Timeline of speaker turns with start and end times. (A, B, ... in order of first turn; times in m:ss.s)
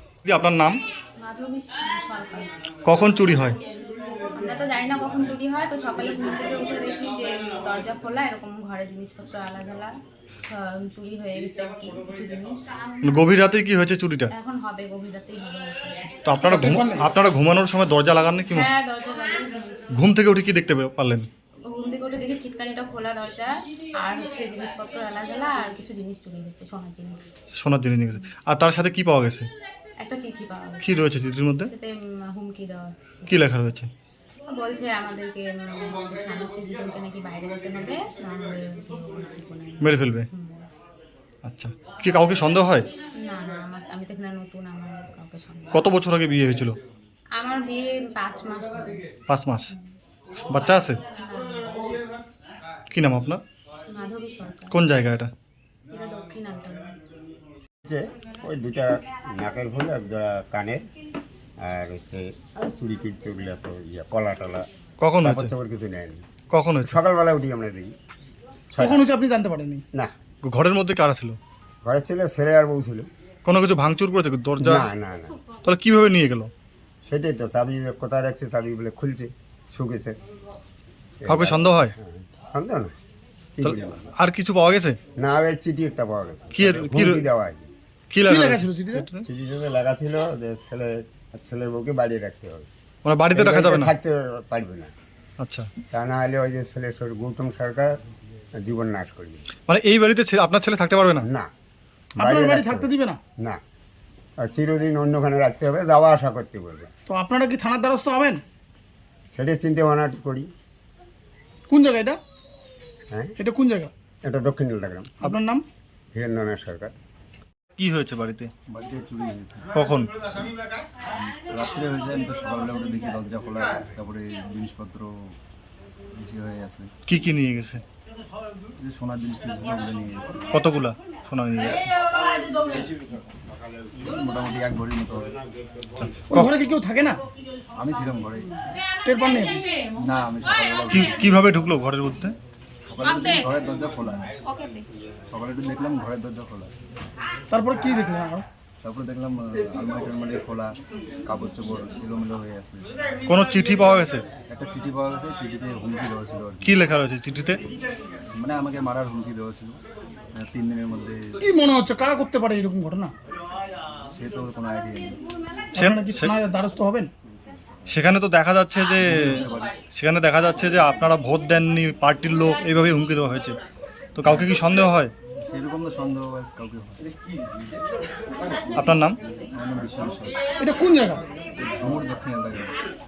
0:00.2-0:00.8 A
0:01.2-0:02.5 B
0:02.8-0:03.6 A
0:04.3-0:09.9 B
0:10.5-0:13.3 B
0:13.0-0:14.3 A
0:14.3-0:16.4 B
0:16.2-0:18.7 A
0:16.5-0:17.0 C
0:18.5-0:20.1 B
0:19.9-0:21.3 A
0:21.7-0:27.2 B
0:27.6-0:29.5 A
0:30.0-0:31.0 B
0:30.8-0:31.7 A
0:31.6-0:33.5 B
0:33.3-0:33.9 A
0:34.5-0:40.7 B
0:39.8-0:40.3 A
0:41.4-0:42.9 A
0:43.2-0:45.9 B
0:45.7-0:46.8 A
0:47.4-0:49.1 B
0:49.3-0:49.7 A
0:50.5-0:51.0 A
0:51.1-0:51.8 B
0:52.9-0:53.4 A
0:53.9-0:54.8 B
0:54.7-0:55.3 A
0:55.9-0:57.0 B
0:57.8-1:00.8 D
1:01.6-1:04.7 D
1:05.0-1:05.5 A
1:05.2-1:06.2 D
1:06.5-1:07.0 A
1:06.8-1:07.9 D
1:08.7-1:09.0 D
1:08.8-1:09.8 C
1:10.4-1:11.4 A
1:11.8-1:13.1 D
1:13.4-1:14.9 A
1:14.6-1:15.4 D
1:15.6-1:16.5 A
1:17.0-1:20.2 D
1:21.2-1:22.9 D
1:21.3-1:21.9 A
1:23.6-1:24.0 D
1:23.6-1:25.0 A
1:25.2-1:27.7 D
1:26.5-1:27.2 A
1:28.1-1:29.2 A
1:28.2-1:29.0 C
1:29.2-1:32.7 D
1:33.0-1:33.9 A
1:33.3-1:34.9 D
1:35.4-1:35.7 A
1:35.9-1:37.9 D
1:38.6-1:39.4 D
1:39.7-1:41.3 A
1:41.2-1:41.5 D
1:42.2-1:43.6 D
1:42.2-1:43.2 C
1:44.4-1:46.9 D
1:47.1-1:48.4 C
1:49.3-1:50.5 D
1:51.7-1:52.2 C
1:53.4-1:53.9 C
1:54.2-1:55.1 D
1:55.2-1:55.6 C
1:56.1-1:56.9 D
1:57.8-1:58.5 A
1:58.7-1:59.6 E
1:59.7-2:00.5 A
2:01.1-2:05.3 E
2:06.1-2:06.9 E
2:07.1-2:07.8 A
2:08.8-2:10.4 E
2:10.5-2:11.9 A
2:14.0-2:15.4 E
2:16.0-2:16.5 A
2:16.3-2:17.2 C
2:17.7-2:18.6 E
2:19.0-2:19.6 C
2:20.0-2:21.4 E
2:20.9-2:22.4 A
2:22.8-2:24.3 E
2:25.3-2:26.7 E
2:27.5-2:28.4 C
2:28.8-2:32.9 E
2:33.3-2:34.3 A
2:34.5-2:36.8 E
2:36.6-2:37.6 A
2:38.3-2:39.8 E
2:40.3-2:41.3 E
2:41.4-2:43.1 C
2:44.1-2:45.2 E
2:45.7-2:46.4 A
2:45.8-2:47.1 C
2:47.9-2:53.6 A
2:49.0-2:49.7 E
2:54.2-2:55.1 A
2:54.2-2:54.5 E
2:55.4-2:57.1 E
2:58.8-2:59.2 A
2:59.5-3:00.4 E
3:00.6-3:01.2 C
3:01.6-3:02.7 E